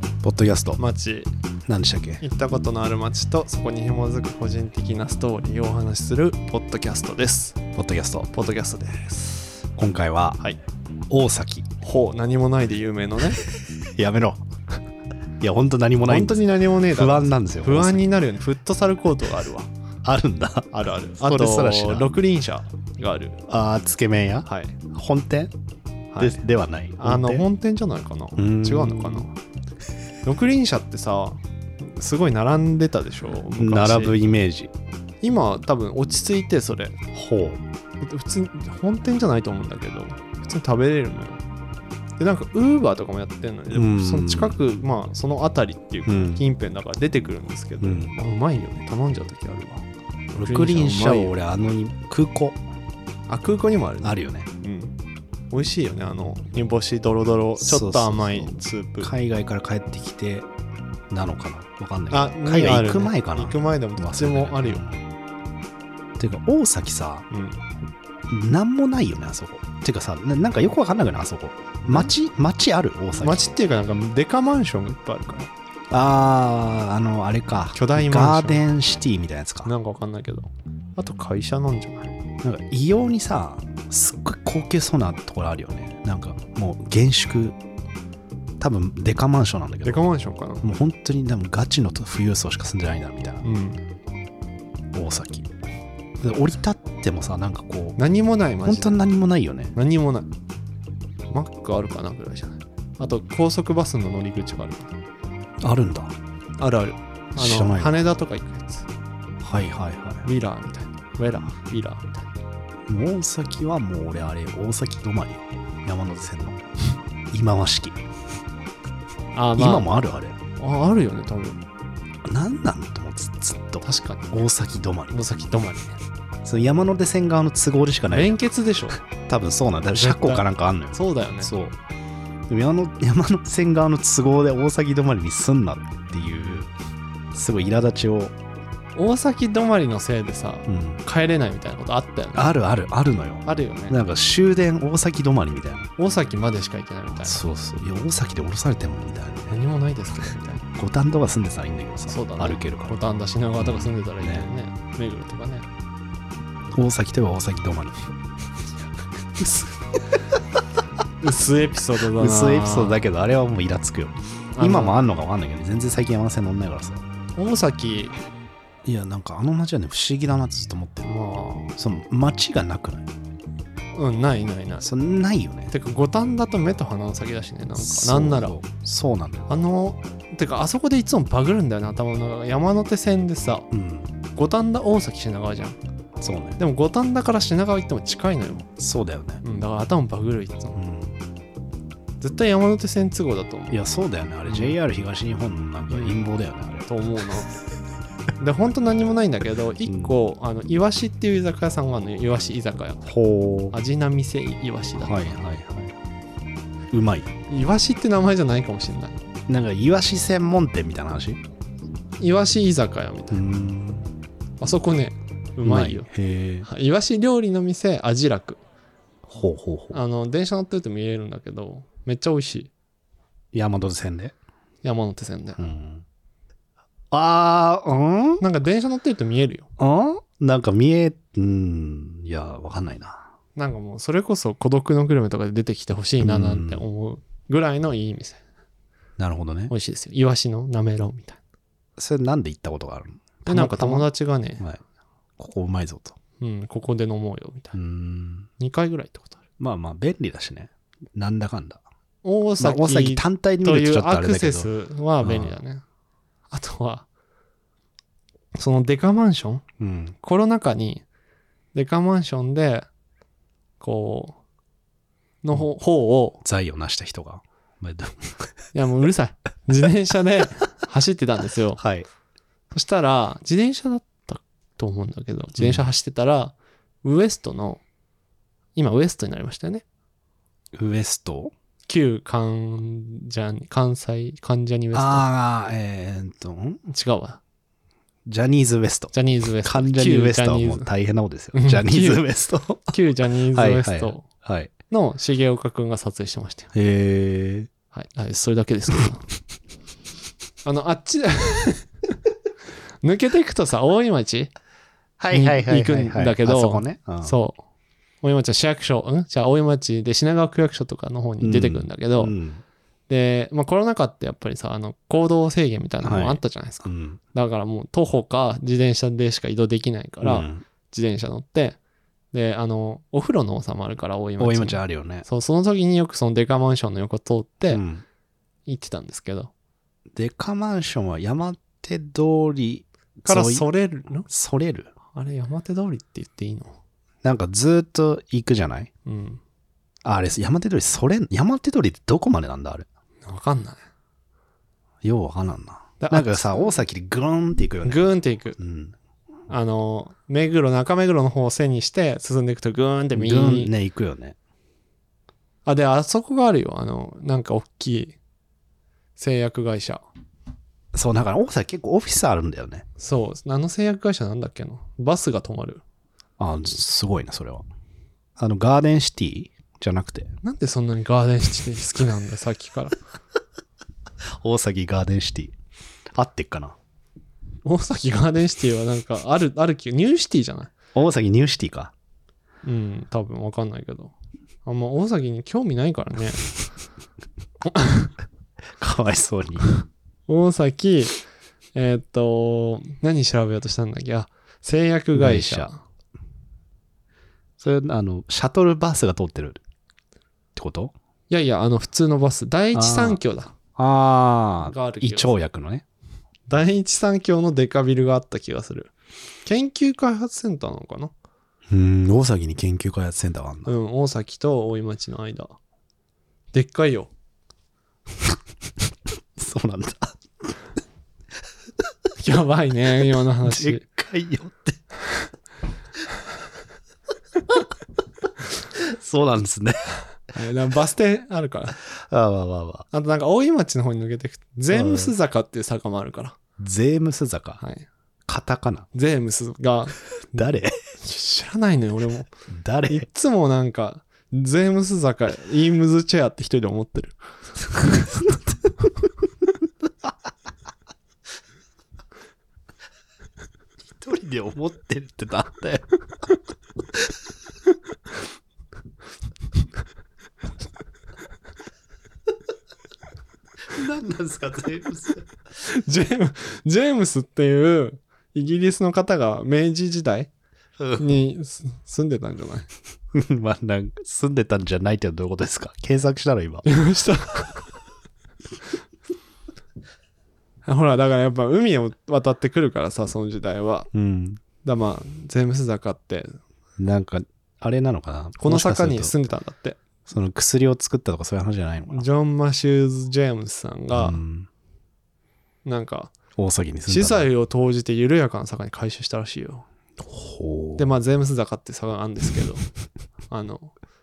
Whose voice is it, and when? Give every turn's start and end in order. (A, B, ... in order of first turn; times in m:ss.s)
0:00.2-0:00.8 A
0:00.8-0:01.3 B
0:01.7-0:02.2 A
0:02.2-0:07.6 B
0:07.8-0:08.3 A
0:08.3-0:09.5 B
0:09.8-0:10.4 A
0:11.1-0:11.7 A
0:11.8-0:13.4 B
0:13.9-0:14.4 A
0:15.4-0:18.0 A
0:16.0-0:19.7 B
0:20.0-0:22.1 A
0:20.7-0:23.4 B
0:23.5-0:25.5 A
0:24.4-0:24.8 B
0:26.1-0:26.4 B
0:26.2-0:27.4 A
0:27.0-0:29.3 B
0:28.4-0:29.3 A
0:30.2-0:34.2 B
0:33.6-0:34.7 A
0:35.2-0:37.0 B
0:37.1-0:37.6 A
0:38.0-0:41.4 B
0:42.2-0:51.3 B
0:43.7-0:44.6 A
0:46.1-0:46.4 A
0:47.8-0:48.2 A
0:50.3-0:52.6 A
0:53.3-0:54.9 B
0:54.0-0:54.5 A
0:55.5-0:59.1 B
0:57.6-1:00.5 A
1:01.1-1:05.0 A
1:02.1-1:04.8 B
1:06.2-1:07.2 A
1:07.3-1:07.6 B
1:08.3-1:13.5 A
1:11.8-1:12.1 B
1:13.2-1:15.5 B
1:15.9-1:19.7 A
1:17.7-1:18.6 B
1:19.6-1:22.1 B
1:22.4-1:27.6 A
1:28.6-1:30.0 A
1:29.8-1:30.6 B
1:30.6-1:33.4 A
1:33.4-1:33.8 B
1:34.9-1:35.5 A
1:36.2-1:38.0 A
1:38.0-1:39.0 B
1:38.6-1:39.7 A
1:39.7-1:40.3 B
1:41.3-1:44.9 B
1:45.6-1:46.2 A
1:46.6-1:48.9 B
1:47.3-1:48.0 A
1:49.4-1:50.2 A
1:50.2-1:52.3 B
1:52.9-1:56.6 A
1:57.3-1:58.0 A
1:59.3-1:59.9 B
1:59.6-2:00.4 A
2:00.6-2:01.6 B
2:02.2-2:05.2 A
2:03.8-2:04.4 B
2:05.1-2:06.0 B
2:06.4-2:08.4 A
2:08.1-2:09.0 B
2:09.3-2:11.7 A
2:09.9-2:11.5 B
2:12.5-2:16.7 A
2:17.3-2:18.3 A
2:19.0-2:22.5 B
2:20.7-2:21.0 A
2:22.3-2:25.9 A
2:23.4-2:24.0 B
2:26.0-2:27.4 B
2:27.2-2:29.6 A
2:29.5-2:30.6 B
2:30.8-2:33.0 A
2:32.1-2:35.7 B
2:33.6-2:34.5 A
2:36.7-2:38.1 A
2:39.4-2:39.6 A
2:41.2-2:43.0 B
2:42.2-2:47.0 A
2:44.5-2:45.0 B
2:47.4-2:48.2 B
2:48.8-2:51.1 A
2:51.0-2:51.7 B
2:51.8-2:53.1 A
2:53.9-2:54.9 B
2:54.8-2:55.7 A
2:55.7-2:58.5 B
2:57.7-2:59.5 A
2:59.5-3:03.7 B
3:03.7-3:04.1 A
3:04.3-3:05.8 B
3:06.2-3:06.6 A
3:06.6-3:08.7 B
3:08.8-3:09.4 A
3:09.4-3:10.8 B
3:10.7-3:11.2 A
3:12.2-3:13.8 B
3:13.7-3:16.9 A
3:14.5-3:14.8 B
3:15.9-3:16.2 B
3:16.8-3:17.5 B
3:18.4-3:23.0 B
3:19.8-3:20.1 A
3:23.0-3:23.8 A
3:23.7-3:25.4 B
3:25.0-3:25.9 A
3:26.9-3:27.3 A
3:27.5-3:29.2 B
3:29.5-3:31.4 A
3:32.2-3:33.4 B
3:33.3-3:34.1 A
3:34.6-3:36.1 B
3:35.6-3:36.7 A
3:36.6-3:38.6 B
3:39.3-3:40.0 A
3:39.9-3:42.7 B
3:43.5-3:44.4 A
3:44.8-3:45.6 B
3:45.6-3:46.0 A
3:47.1-3:48.4 A
3:48.4-3:49.7 B
3:49.8-3:53.3 A
3:53.6-3:58.4 B
3:56.2-3:56.8 A
3:59.2-3:59.7 A
3:59.7-4:01.4 B
4:02.0-4:04.8 A
4:03.4-4:04.6 B
4:05.4-4:06.2 A
4:06.4-4:07.7 B
4:07.7-4:08.5 A
4:08.6-4:09.4 B
4:09.6-4:11.8 A
4:12.2-4:15.8 B
4:12.6-4:14.7 A
4:15.2-4:15.6 A
4:16.5-4:17.0 B
4:18.6-4:19.6 B
4:19.8-4:20.1 A
4:20.2-4:21.0 B
4:21.7-4:22.9 B
4:23.8-4:24.4 B
4:25.4-4:26.4 B
4:26.4-4:28.5 A
4:28.7-4:31.8 B
4:31.8-4:32.0 A
4:32.7-4:37.8 B
4:35.6-4:35.8 A
4:38.7-4:39.8 B
4:40.7-4:41.5 A
4:41.9-4:45.2 B
4:44.9-4:46.8 A
4:46.9-4:47.4 B
4:48.2-4:53.0 A
4:49.1-4:50.9 B
4:51.5-4:52.2 B
4:52.8-4:54.3 B
4:53.5-4:54.7 A
4:54.9-4:56.7 B
4:56.7-4:57.7 A
4:57.9-4:59.2 B
5:00.6-5:01.9 B
5:03.0-5:04.5 B
5:05.2-5:07.3 A
5:05.3-5:07.6 B
5:08.2-5:12.3 B
5:11.4-5:12.6 A
5:13.1-5:21.8 B
5:16.0-5:17.2 A
5:20.2-5:20.6 A
5:22.3-5:27.8 B
5:24.4-5:25.2 A
5:27.7-5:28.0 A
5:28.6-5:29.5 B
5:30.1-5:33.7 A
5:33.2-5:34.3 B
5:34.2-5:34.9 A
5:35.1-5:36.7 B
5:37.2-5:38.9 A
5:39.0-5:39.4 B
5:40.0-5:42.9 A
5:43.2-5:43.8 B
5:45.0-5:48.9 A
5:46.0-5:46.7 B
5:47.8-5:48.6 B
5:49.5-5:53.7 B
5:53.1-5:54.4 A
5:55.6-5:58.2 B
5:59.2-6:00.0 B
6:00.9-6:02.8 A
6:03.0-6:05.8 B
6:06.4-6:07.6 A
6:08.4-6:10.3 A
6:10.4-6:12.9 B
6:14.4-6:15.5 A
6:16.1-6:16.8 A
6:17.6-6:20.7 B
6:20.9-6:21.9 A
6:22.6-6:24.1 B
6:24.6-6:26.5 B
6:27.7-6:28.1 B
6:28.8-6:29.7 A
6:30.3-6:31.2 B
6:31.7-6:35.8 B
6:35.1-6:35.7 A
6:37.6-6:39.6 A
6:40.6-6:40.9 A
6:41.3-6:43.5 B
6:42.7-6:43.2 A
6:43.8-6:45.8 A
6:44.6-6:45.3 B
6:46.5-6:48.9 B
6:49.4-6:51.1 B
6:51.7-6:53.7 A
6:53.6-6:55.6 B
6:56.5-6:57.1 B
6:59.4-7:00.6 A
7:02.2-7:03.8 B
7:03.4-7:04.8 A
7:08.7-7:09.9 A
7:10.3-7:11.8 B
7:11.9-7:12.9 A
7:12.9-7:16.4 B
7:14.7-7:15.1 A
7:16.6-7:17.6 A
7:17.6-7:17.9 B
7:18.3-7:18.9 A
7:18.9-7:20.4 B
7:20.3-7:20.8 A
7:21.0-7:22.3 B
7:22.5-7:23.0 A
7:22.9-7:27.2 B
7:27.8-7:28.1 B
7:33.9-7:35.9 A
7:43.7-7:45.3 A
7:45.6-7:50.3 B
7:50.8-7:51.2 A
7:51.0-7:52.7 B
7:53.1-7:56.6 A
7:56.6-7:57.7 B
8:00.6-8:03.9 B
8:03.9-8:04.4 A
8:04.6-8:06.4 B
8:06.8-8:09.2 A
8:08.4-8:09.8 B
8:10.1-8:12.0 A
8:11.9-8:14.2 B
8:13.9-8:14.5 A
8:15.6-8:16.1 B
8:16.4-8:17.3 A
8:16.8-8:19.6 B
8:20.0-8:20.9 A
8:20.8-8:22.6 B
8:23.3-8:23.7 B